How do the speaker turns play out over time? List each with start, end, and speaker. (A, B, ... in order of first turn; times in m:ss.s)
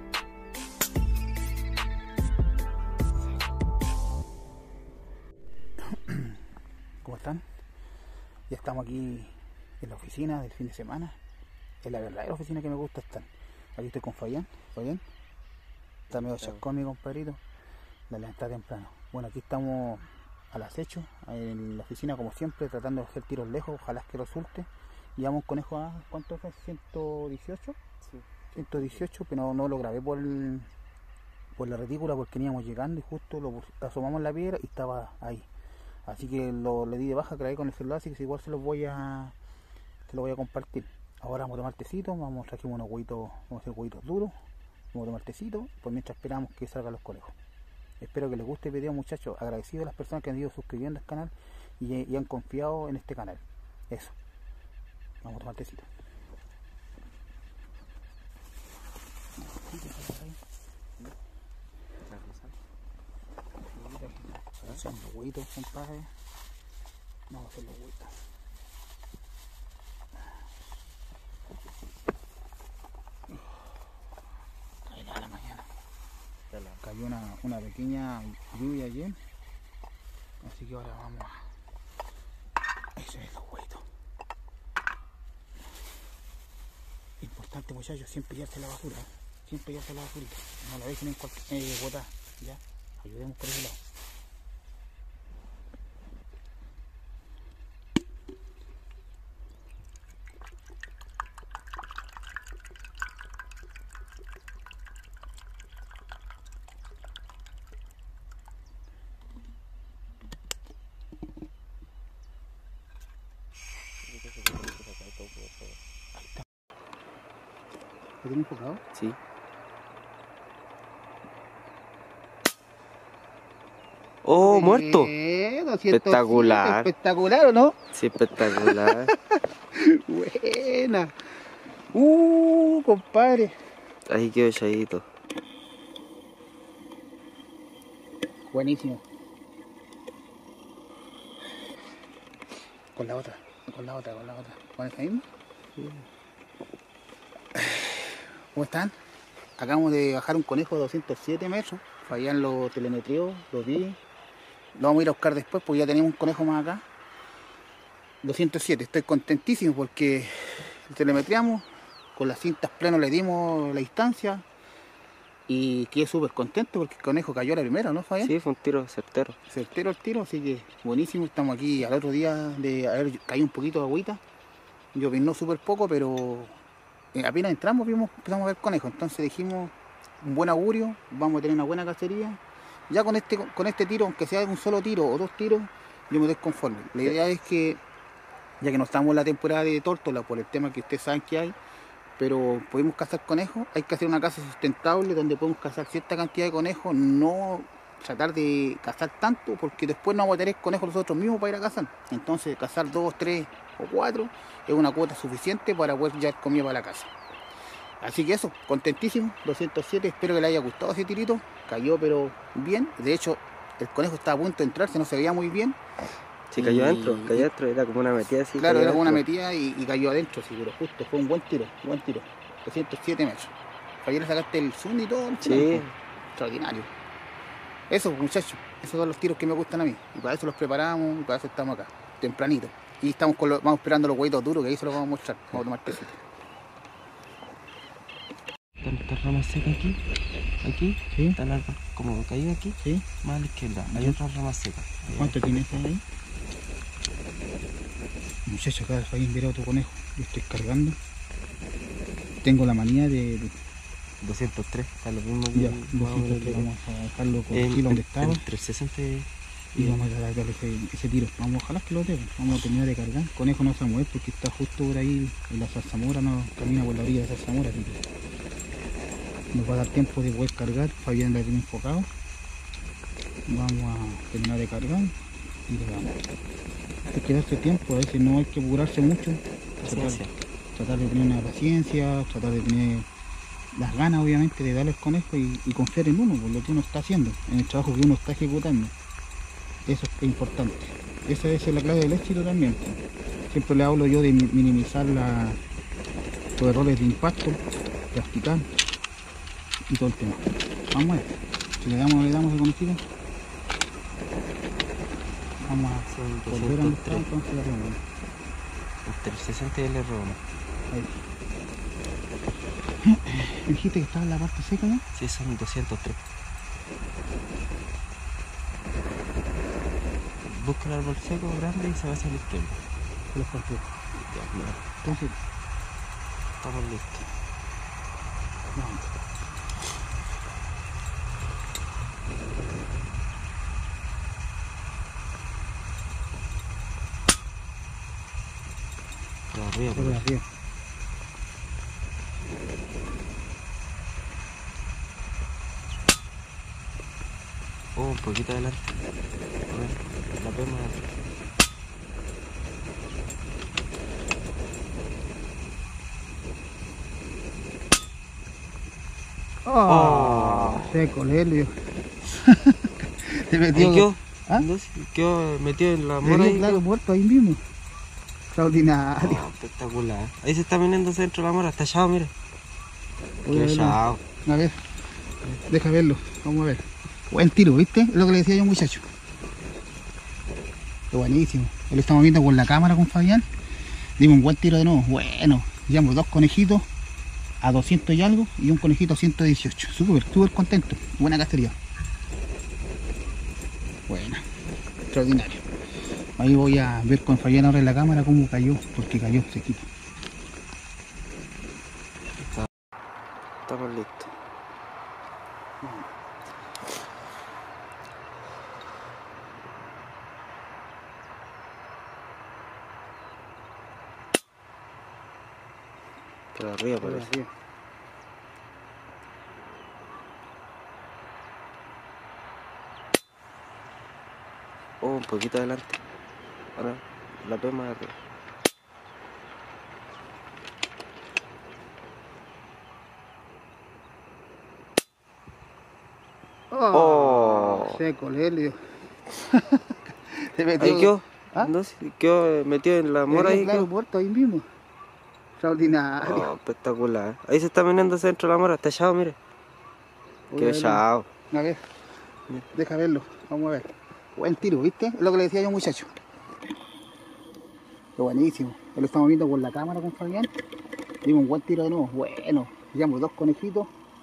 0:06.1-0:06.4 A
0:07.0-0:07.4 A
0:08.5-0:11.2 A
0:11.8-0:15.0 A
0:16.1-0:16.6 B
0:16.1-0:17.4 A
0:18.1-0:27.8 A
0:28.1-0:29.1 B
0:28.6-0:30.7 A
0:31.6-0:35.5 A
0:36.1-0:39.4 A
0:40.1-0:44.4 A
0:44.9-0:47.3 A
0:48.0-0:54.2 A
0:55.2-0:55.9 A
0:59.4-1:00.4 A
1:02.0-1:02.6 B
1:03.7-1:06.1 A
1:07.3-1:08.1 A
1:14.9-1:15.7 A
1:16.5-1:16.8 B
1:16.8-1:19.2 A
1:20.4-1:21.4 A
1:23.0-1:23.9 A
1:27.2-1:33.8 A
1:54.0-1:55.8 B
1:58.2-1:58.8 A
2:04.2-2:05.1 B
2:04.4-2:07.8 A
2:05.9-2:06.9 B
2:07.9-2:09.1 B
2:08.5-2:09.1 A
2:09.7-2:11.2 A
2:11.9-2:13.6 A
2:14.1-2:15.1 B
2:18.5-2:19.0 A
2:23.0-2:25.3 A
2:27.6-2:29.0 A
2:29.6-2:34.0 A
2:34.8-2:36.8 A
2:38.2-2:44.4 A
2:45.5-2:48.3 A
2:48.2-2:49.4 B
2:49.5-2:54.2 A
2:55.0-2:56.6 A
2:57.1-3:07.8 A
3:08.6-3:11.6 A
3:12.2-3:27.1 A
3:28.0-3:35.8 A
3:36.5-3:39.2 B
3:36.6-3:37.5 A
3:38.6-3:46.9 A
3:45.4-3:46.0 B
3:47.9-3:56.2 A
3:58.8-4:00.0 B
4:00.6-4:05.8 B
4:02.8-4:03.1 A
4:03.9-4:04.2 A
4:05.1-4:06.0 A
4:08.5-4:11.0 A
4:12.4-4:13.6 A
4:14.2-4:16.7 B
4:15.5-4:18.5 A
4:17.5-4:20.0 B
4:19.8-4:28.0 A
4:29.5-4:32.1 A
4:33.5-4:35.2 A
4:35.7-4:36.2 A
4:37.1-4:43.1 A
4:39.8-4:40.3 B
4:43.7-4:48.9 A
4:49.9-4:55.6 A
4:56.6-4:57.6 A
4:58.1-4:58.7 A
4:59.9-5:03.0 A
5:05.6-5:08.0 A
5:06.1-5:07.3 B
5:09.1-5:10.4 B
5:10.9-5:11.2 A
5:13.0-5:15.0 A
5:15.2-5:16.2 B
5:20.4-5:22.8 B
5:23.3-5:23.9 A
5:24.2-5:25.2 B
5:25.0-5:25.4 A
5:26.6-5:27.3 B
5:28.8-5:29.1 A
5:39.5-5:40.2 B
5:40.0-5:40.5 A
5:48.0-5:48.9 B
5:49.7-5:51.1 B
5:59.6-6:04.7 A
5:59.9-6:01.0 B
6:03.7-6:06.8 B
6:06.2-6:07.6 A
6:08.5-6:09.4 A
6:09.2-6:12.3 B
6:13.5-6:14.2 B
6:13.5-6:14.8 A
6:15.7-6:19.1 A
6:21.1-6:23.5 A
6:24.2-6:26.9 A
6:27.6-6:31.8 A
6:34.1-6:34.4 A
6:35.1-6:35.6 A
6:36.4-6:39.9 A
6:43.7-6:44.3 B
6:45.8-6:46.1 A
6:56.5-6:57.3 B
6:57.0-6:57.5 A
7:05.0-7:06.0 B
7:06.8-7:08.2 B
7:16.7-7:21.7 A
7:16.9-7:18.0 B
7:20.8-7:23.9 B
7:23.3-7:24.7 A
7:25.6-7:26.5 A
7:26.2-7:29.4 B
7:30.5-7:31.8 A
7:30.6-7:31.3 B
7:32.7-7:36.1 A
7:38.2-7:40.5 A
7:41.2-7:43.9 A